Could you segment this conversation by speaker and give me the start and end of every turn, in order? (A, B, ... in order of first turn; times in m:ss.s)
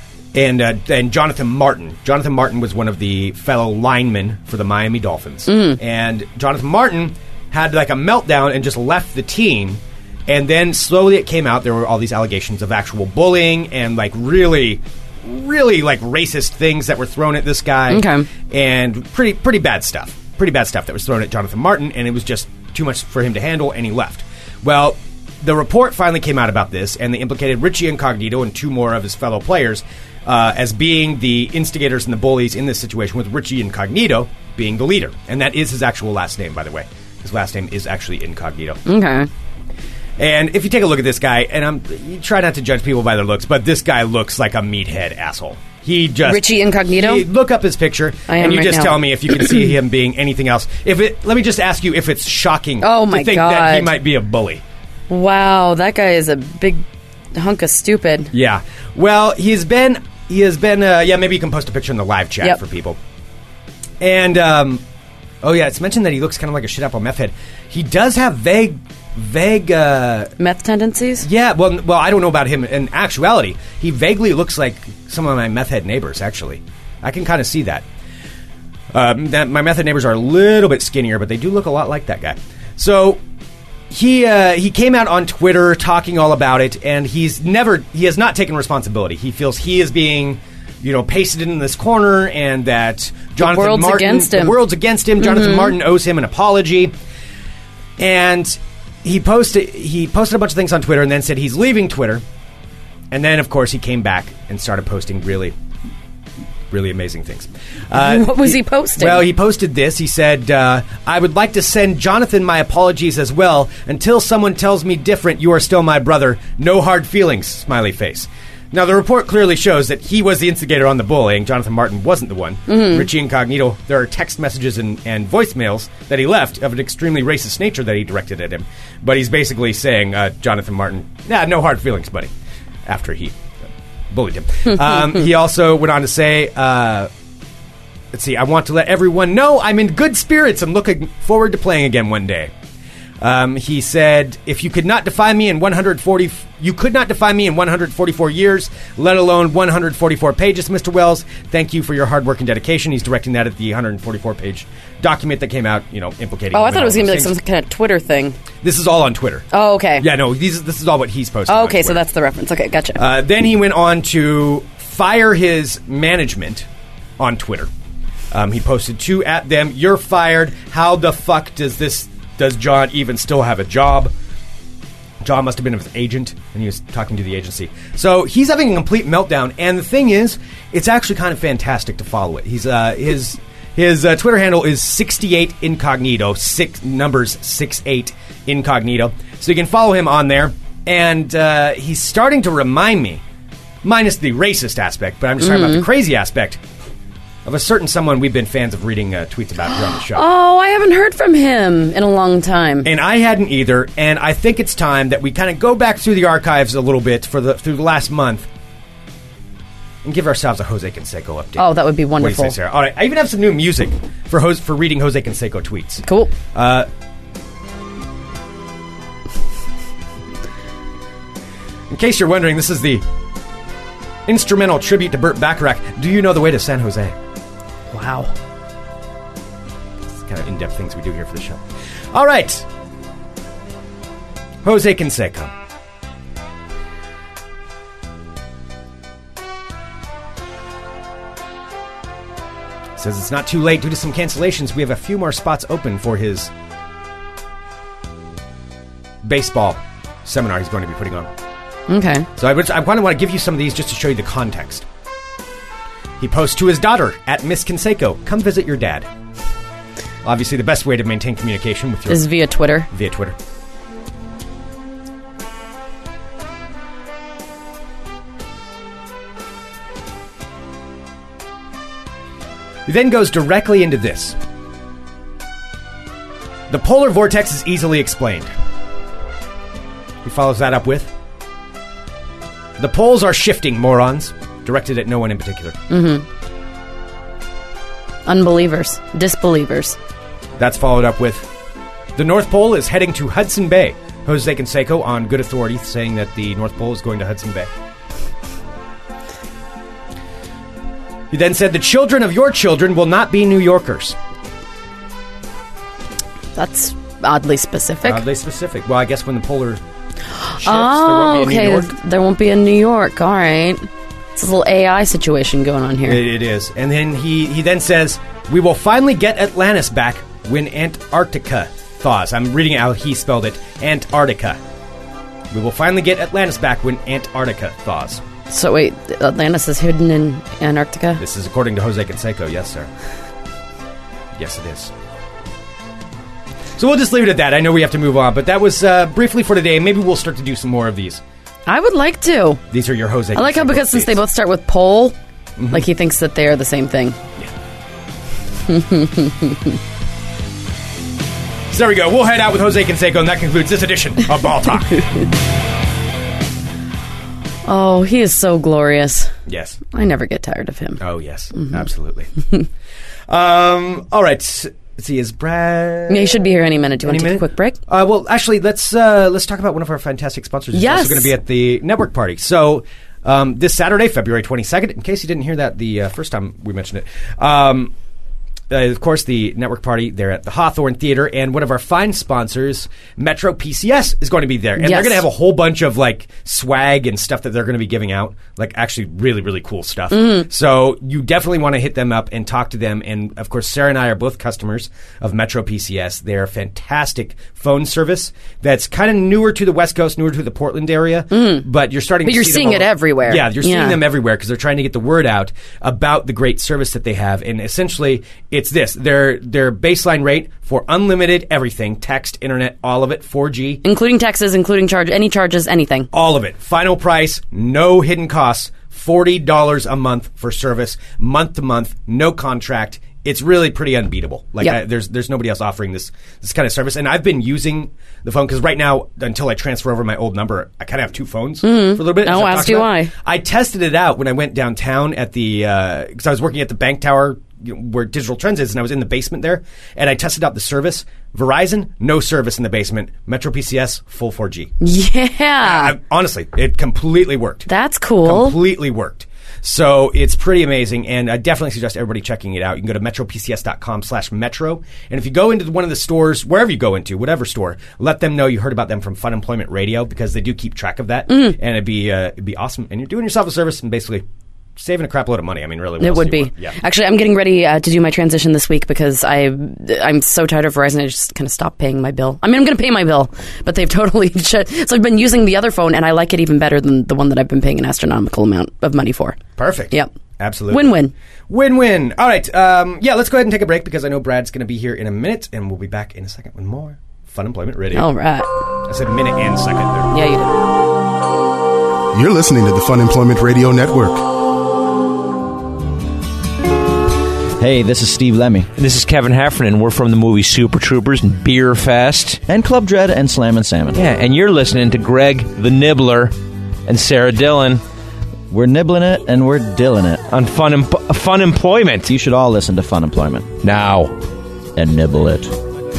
0:00.3-0:38.8 A
0:05.5-0:05.8 B
0:17.9-0:18.3 B
0:38.9-0:39.3 B
0:40.2-0:54.6 A
0:46.2-0:47.3 B
0:48.3-0:49.6 B
0:52.8-0:53.9 B
0:55.1-0:58.3 B
0:58.3-1:03.0 A
1:04.0-1:04.8 A
1:05.4-1:10.3 A
1:10.4-1:11.3 B
1:11.2-1:17.8 A
1:18.9-1:23.2 A
1:23.9-1:36.9 A
1:33.4-1:34.6 B
1:35.2-1:35.7 B
1:38.0-1:42.2 A
1:43.1-1:45.6 A
1:46.7-2:12.3 A
1:47.9-1:49.3 B
2:02.7-2:03.1 B
2:12.9-2:13.4 A
2:14.1-2:17.1 A
2:18.1-2:22.5 A
2:23.2-2:37.4 A
2:36.5-2:38.4 B
2:38.6-2:39.5 A
2:39.5-2:40.1 B
2:40.0-2:42.0 A
2:41.5-2:43.0 B
2:43.0-2:46.7 A
2:47.2-2:47.7 A
2:48.3-2:54.1 A
2:55.2-3:13.2 A
3:13.8-3:16.6 A
3:15.4-3:15.9 B
3:17.4-3:20.3 A
3:20.1-3:22.9 B
3:22.8-3:28.5 A
3:30.0-3:36.9 A
3:31.6-3:32.6 B
3:36.0-3:36.3 B
3:41.9-3:43.0 A
3:44.3-3:47.2 A
3:47.9-3:48.3 B
3:50.2-3:52.6 A
3:54.6-3:55.5 A
4:03.0-4:06.5 A
4:09.2-4:11.3 A
4:11.9-4:12.3 B
4:12.4-4:14.8 A
4:16.2-4:19.1 A
4:20.2-4:22.3 A
4:22.1-4:22.9 B
4:22.9-4:23.4 A
4:32.9-4:34.4 A
4:36.7-4:38.5 A
4:40.2-4:41.1 A
4:42.8-4:45.8 A
4:45.9-4:46.2 B
4:48.3-4:50.0 B
4:50.6-4:51.5 A
4:52.2-4:57.7 A
5:01.3-5:04.2 A
5:06.6-5:08.2 B
5:08.0-5:09.8 A
5:10.5-5:16.2 B
5:10.6-5:11.9 A
5:16.1-5:24.6 A
5:25.5-5:28.2 A
5:28.5-5:31.2 B
5:31.2-5:32.9 A
5:34.4-5:34.9 A
5:36.8-5:41.2 A
5:41.7-5:42.6 B
5:42.7-5:44.2 A
5:43.3-5:45.2 B
5:45.6-5:45.9 A
5:45.7-5:47.2 B
5:48.7-5:49.8 B
5:51.7-5:55.1 A
5:57.7-5:59.3 B
5:59.5-5:59.8 A
5:59.9-6:01.0 B
6:01.0-6:02.3 A
6:03.3-6:06.4 A
6:06.1-6:07.8 B
6:07.0-6:17.9 A
6:10.7-6:11.3 B
6:18.7-6:53.8 A
6:24.8-6:25.2 B
6:30.1-6:30.5 B
6:41.3-6:41.6 B
6:42.2-6:44.0 B
6:53.8-6:56.1 B
6:56.1-7:24.7 A
7:11.6-7:13.1 B
7:24.8-7:26.0 B
7:25.6-7:27.7 A
7:27.7-7:28.6 B
7:28.2-7:44.2 A
7:41.3-7:41.6 B
7:44.8-7:46.8 A
7:46.0-7:59.4 B
7:59.6-8:01.0 A
8:00.7-8:01.1 B
8:01.5-8:08.1 A
8:07.9-8:08.5 B
8:08.8-8:10.1 A
8:10.1-8:10.6 B
8:12.1-8:14.3 C
8:17.6-8:18.7 D
8:18.8-8:22.4 E
8:22.5-8:24.0 D
8:23.9-8:26.3 E
8:26.9-8:27.8 E
8:28.5-8:30.3 D
8:30.3-8:32.1 E
8:32.1-8:33.6 D
8:33.6-8:34.2 E
8:34.8-8:35.6 D